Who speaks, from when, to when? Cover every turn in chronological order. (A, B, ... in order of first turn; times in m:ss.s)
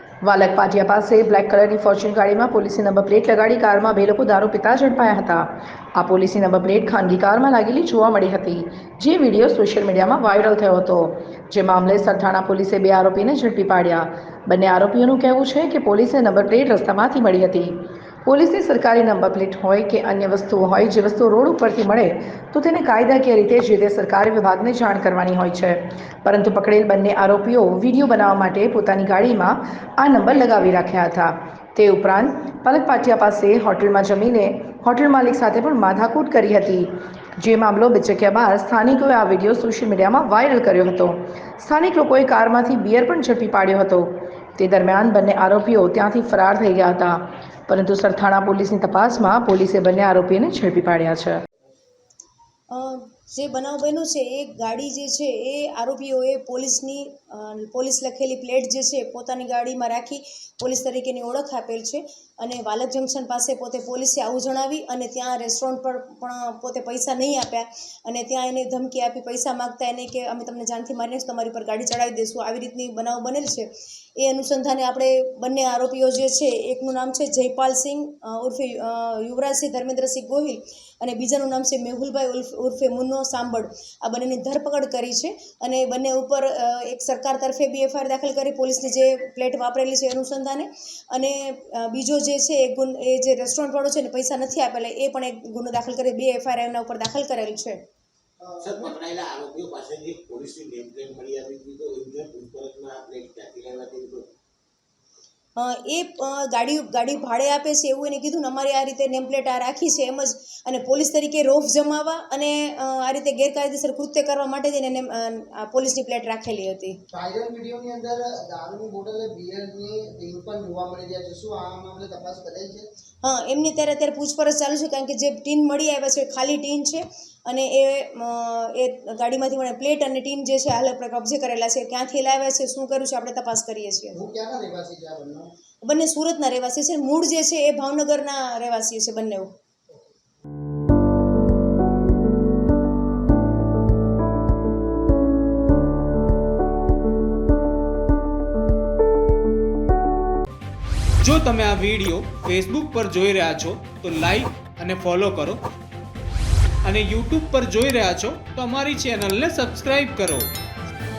0:00.2-0:51.4 A
0:52.7-1:37.8 B
1:38.4-1:39.0 C
1:38.6-1:44.3 D
1:45.6-1:57.0 B
1:57.1-2:02.9 C
2:03.2-2:14.2 B
2:14.1-2:15.5 C
2:15.8-2:19.5 B
2:31.2-2:35.6 E
2:36.8-2:40.5 E